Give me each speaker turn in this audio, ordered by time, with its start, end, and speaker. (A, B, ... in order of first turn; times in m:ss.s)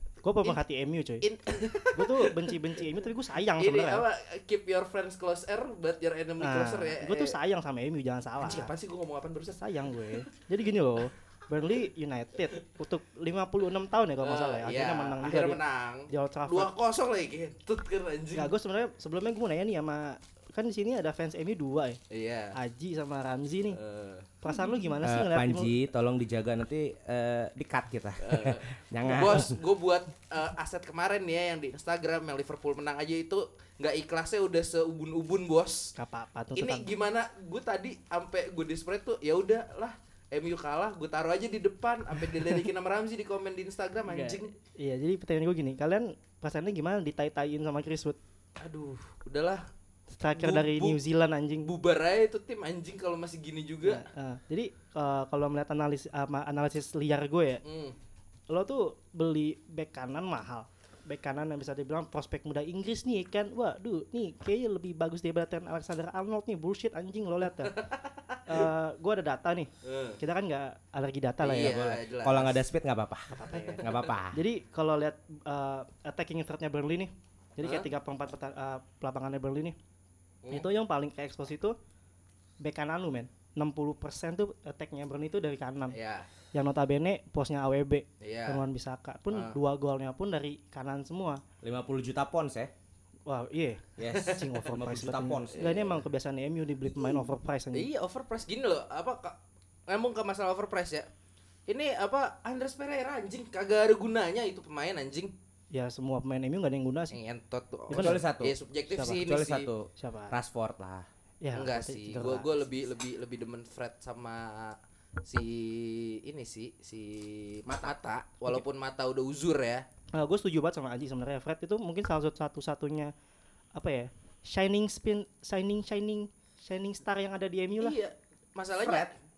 0:00.2-0:01.2 A
0:01.2-0:02.8 B
0:01.9-0:04.0 A
0:03.6-0:07.3 B
0:06.4-0:08.7 A
0:08.4-0:10.3 B
0:09.6-0:16.7 A
0:14.2-0:18.5 B
0:18.3-0:22.0 A
0:22.1-0:22.5 B
0:22.5-0:23.8 A
0:23.7-0:24.3 B
0:24.4-0:25.7 A
0:25.0-0:29.6 C
0:28.2-0:35.9 B
0:36.0-0:36.9 A
0:36.6-0:44.5 B
0:44.0-0:48.2 A
0:48.6-0:49.6 B
0:50.1-0:51.7 A
0:50.4-0:51.0 B
0:51.6-0:54.0 B
0:53.8-0:57.6 A
0:57.6-0:57.9 B
0:58.5-1:07.8 A
1:07.6-1:08.6 B
1:08.4-1:12.0 A
1:09.8-1:10.2 B
1:11.4-1:12.6 B
1:12.2-1:14.4 C
1:13.3-1:19.8 A
1:13.5-1:14.0 B
1:17.6-1:17.9 B
1:20.5-1:21.7 A
1:22.6-1:26.0 A
1:25.9-1:26.3 B
1:26.5-1:31.4 A
1:28.2-1:28.6 B
1:29.3-1:29.6 B
1:31.6-1:32.7 C
1:33.3-1:37.9 A
1:34.0-1:35.8 C
1:35.5-1:36.0 B
1:37.7-1:39.4 B
1:39.9-1:41.1 B
1:41.7-1:45.3 B
1:45.7-1:47.2 A
1:47.1-1:49.7 B
1:47.9-1:48.2 A
1:47.9-1:48.5 C
1:48.9-1:49.2 A
1:49.1-1:51.0 C
1:50.0-1:50.4 A
1:51.4-1:52.5 A
1:51.5-1:59.8 B
1:57.7-1:57.9 C
2:00.1-2:03.1 A
2:03.8-2:08.0 A
2:07.8-2:09.2 B
2:08.8-2:09.1 C